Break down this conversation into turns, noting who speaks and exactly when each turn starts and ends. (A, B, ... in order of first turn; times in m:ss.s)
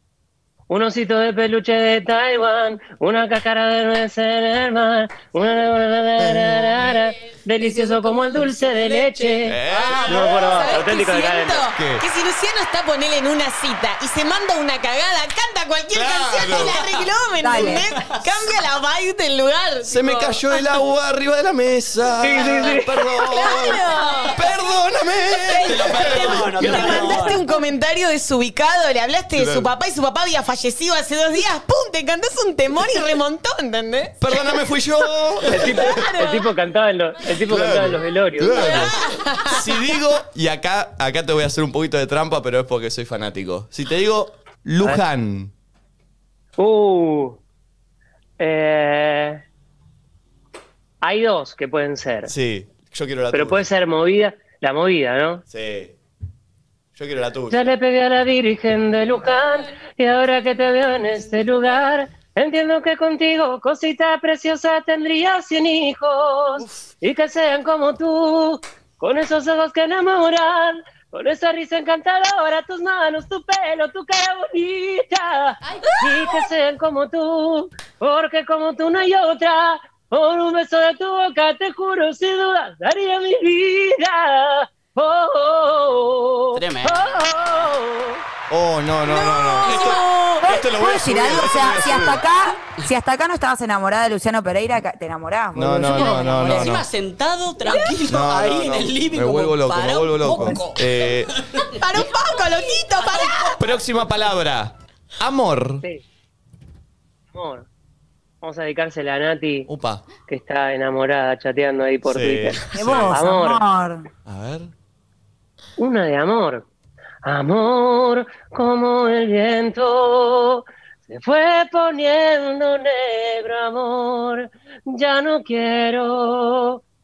0:00.7-0:11.6 A
0:07.6-0:08.5 B
0:08.3-0:10.7 C
0:09.4-0:10.7 D
0:09.8-0:20.4 B
0:11.7-0:12.0 D
0:15.9-0:16.8 D
0:16.5-0:17.0 C
0:17.4-0:17.8 E
0:17.7-0:18.2 C
0:19.8-0:26.9 D
0:22.2-0:23.0 A
0:23.2-0:24.4 B
0:25.4-0:34.5 B
0:25.5-0:27.4 C
0:26.6-0:27.3 A
0:29.3-0:29.7 D
0:34.2-0:36.0 D
0:35.4-0:36.5 B
0:35.5-0:38.8 A
0:37.4-0:45.5 D
0:38.5-0:39.7 B
0:46.6-0:47.4 A
0:48.4-0:49.4 A
0:51.0-0:52.3 A
0:52.3-0:53.7 D
0:53.3-0:55.4 A
0:55.5-0:55.9 D
0:57.0-0:57.7 D
0:57.5-1:28.2 A
1:15.9-1:16.3 B
1:26.5-1:27.0 C
1:28.5-1:32.2 D
1:29.1-1:29.8 E
1:29.6-1:30.4 C
1:30.4-1:36.8 E
1:35.5-1:36.8 D
1:36.0-1:41.7 C
1:37.7-1:38.0 B
1:38.1-1:41.3 D
1:41.6-1:43.6 B
1:43.1-1:43.6 C
1:43.6-1:45.8 D
1:47.3-1:47.7 A
1:48.4-1:49.7 A
1:49.7-1:50.0 D
1:50.2-1:53.6 A
1:52.0-1:53.1 D
1:52.7-1:54.1 E
1:54.2-1:54.7 D
1:55.8-1:56.6 A
1:57.2-2:06.8 A